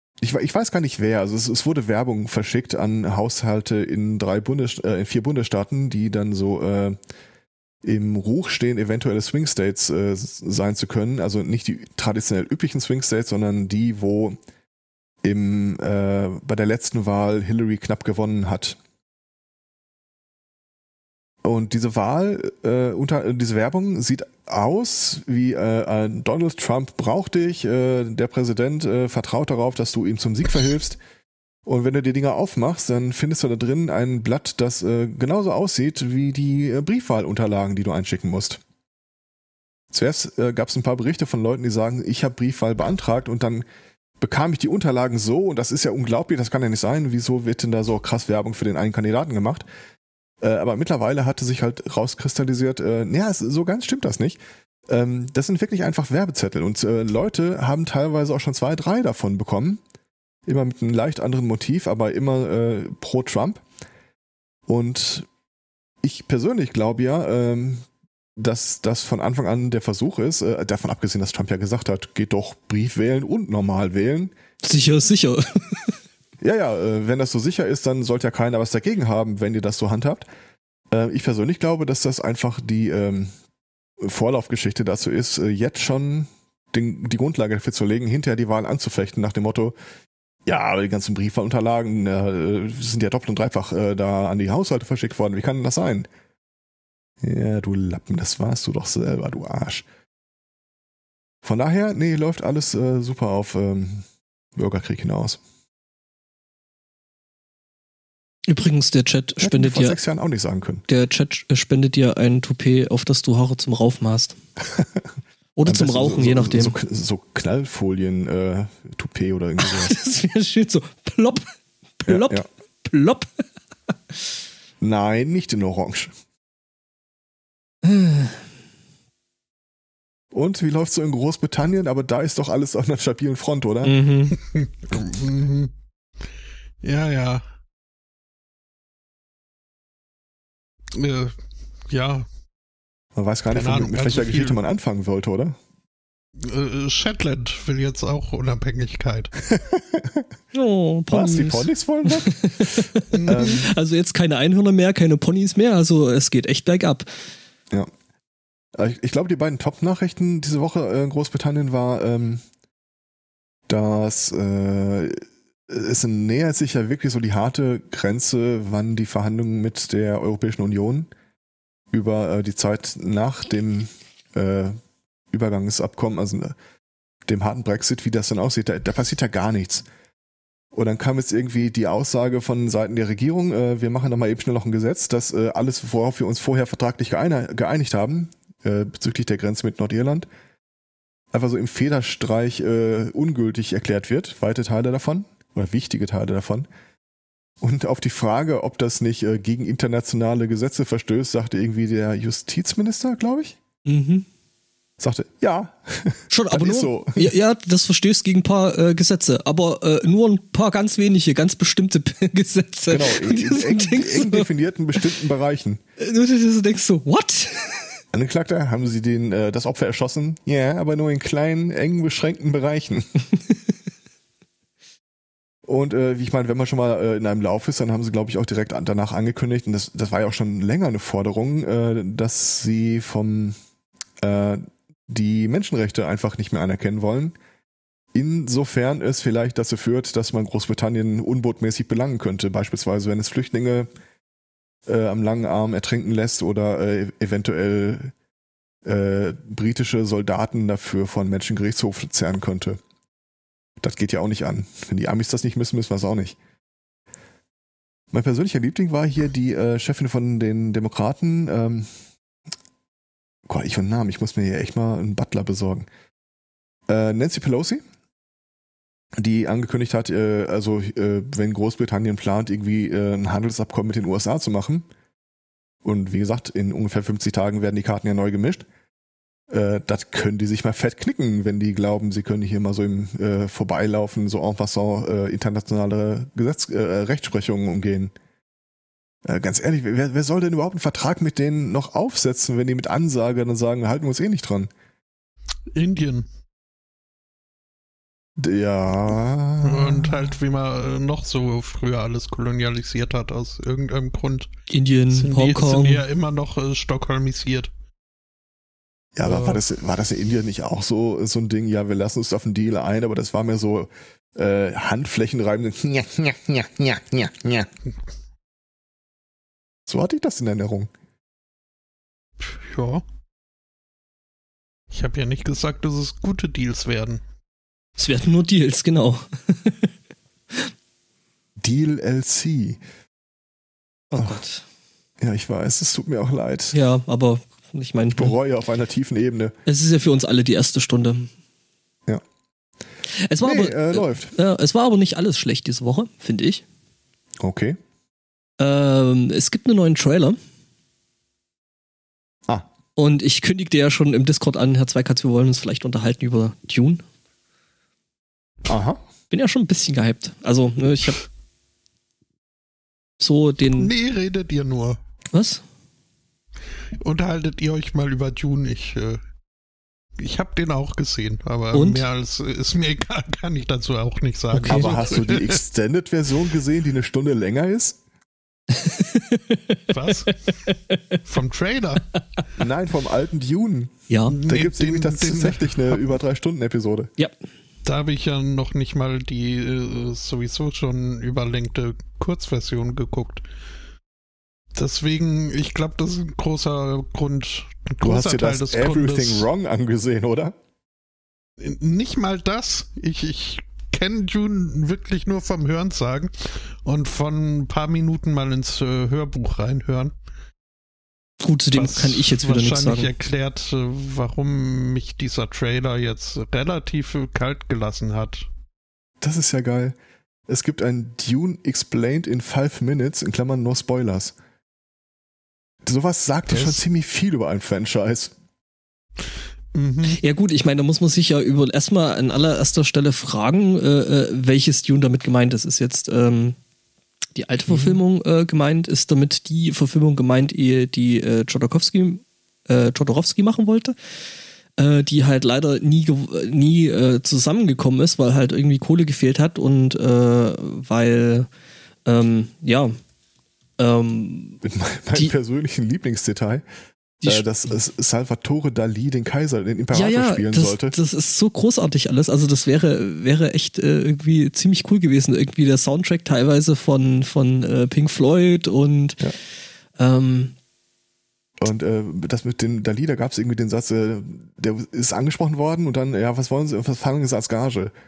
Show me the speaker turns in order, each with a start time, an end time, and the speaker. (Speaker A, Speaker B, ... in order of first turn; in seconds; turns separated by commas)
Speaker A: 0.2-7.0, Speaker A: 7.8-14.4, Speaker A: 15.2-18.8, Speaker A: 21.4-31.0, Speaker A: 31.6-38.6, Speaker A: 39.9-43.6, Speaker A: 44.2-49.6, Speaker A: 50.4-59.8, Speaker A: 60.5-63.6, Speaker A: 64.7-65.3, Speaker A: 66.0-67.8, Speaker A: 68.4-74.3, Speaker B: 74.6-76.0, Speaker A: 76.4-80.2, Speaker A: 80.9-83.3, Speaker A: 84.0-89.8, Speaker A: 90.5-96.1, Speaker A: 97.2-99.8, Speaker A: 101.4-105.4, Speaker B: 108.5-110.0, Speaker A: 109.4-110.8, Speaker B: 110.9-114.4, Speaker A: 114.7-115.0, Speaker B: 115.5-116.7, Speaker A: 115.7-120.0, Speaker B: 119.6-121.5, Speaker B: 122.0-123.3, Speaker A: 122.1-122.5, Speaker A: 124.8-126.1, Speaker B: 127.8-128.4, Speaker A: 130.3-133.9, Speaker B: 133.8-134.3, Speaker C: 134.4-135.7, Speaker C: 136.8-137.4, Speaker C: 140.9-141.4, Speaker C: 141.9-142.3, Speaker A: 143.1-145.6, Speaker C: 143.5-144.6, Speaker C: 146.4-149.3, Speaker A: 149.5-150.2, Speaker B: 150.5-157.1, Speaker A: 151.1-153.6, Speaker C: 153.1-153.7, Speaker A: 158.7-162.4, Speaker A: 163.7-171.1, Speaker A: 171.9-174.8, Speaker A: 175.3-176.6, Speaker A: 177.2-179.8, Speaker A: 180.7-190.3, Speaker A: 191.3-196.7, Speaker A: 197.6-203.6, Speaker B: 203.8-204.2, Speaker A: 205.0-207.3, Speaker B: 206.3-215.0, Speaker A: 212.9-215.8, Speaker B: 216.0-218.0, Speaker A: 218.1-223.1, Speaker A: 225.6-233.6, Speaker A: 234.2-237.3, Speaker A: 238.1-243.9, Speaker A: 244.8-248.1, Speaker A: 248.8-252.8, Speaker A: 253.8-256.4, Speaker A: 258.1-261.9, Speaker A: 263.5-265.9, Speaker A: 266.9-267.8, Speaker A: 269.2-274.9, Speaker A: 275.8-278.6, Speaker A: 279.5-288.1, Speaker A: 289.2-294.7, Speaker C: 295.7-296.3, Speaker A: 298.4-300.3, Speaker C: 299.6-304.5, Speaker B: 304.7-306.0, Speaker C: 305.1-307.7, Speaker A: 309.1-317.7, Speaker C: 309.2-309.6, Speaker A: 319.9-320.9, Speaker C: 322.4-323.0, Speaker C: 324.9-327.2, Speaker B: 328.0-329.9, Speaker A: 331.6-332.8, Speaker B: 334.1-334.6, Speaker A: 334.2-334.4, Speaker A: 335.2-336.7, Speaker B: 336.7-338.4, Speaker A: 338.1-339.5, Speaker B: 339.6-341.3, Speaker B: 343.1-346.6, Speaker A: 343.4-344.3, Speaker A: 347.4-347.8, Speaker B: 348.6-350.4, Speaker B: 352.9-357.0, Speaker A: 358.6-359.0, Speaker B: 359.3-361.2, Speaker B: 363.2-363.9, Speaker C: 363.8-365.0, Speaker B: 365.3-365.6, Speaker C: 367.0-369.2, Speaker C: 370.2-375.6, Speaker B: 371.7-372.0, Speaker B: 374.5-374.9, Speaker A: 374.7-378.0, Speaker B: 378.7-379.9, Speaker C: 379.9-382.2, Speaker B: 380.7-381.2, Speaker A: 382.6-387.1, Speaker B: 384.1-384.4, Speaker C: 384.3-386.0, Speaker C: 387.8-393.4, Speaker C: 394.7-399.5, Speaker A: 398.0-400.6, Speaker C: 401.6-410.1, Speaker B: 411.4-413.1, Speaker C: 411.7-418.5, Speaker A: 419.2-419.9, Speaker A: 420.5-424.4, Speaker A: 425.8-428.3, Speaker C: 426.5-426.8, Speaker C: 429.7-430.2, Speaker B: 430.1-436.6, Speaker B: 437.4-443.9, Speaker A: 437.7-438.0, Speaker B: 444.8-451.5, Speaker B: 452.1-452.9, Speaker B: 453.8-454.6, Speaker A: 454.6-456.6, Speaker B: 457.2-457.7, Speaker A: 457.2-460.9, Speaker B: 459.9-469.3, Speaker B: 470.0-470.5, Speaker A: 471.6-477.9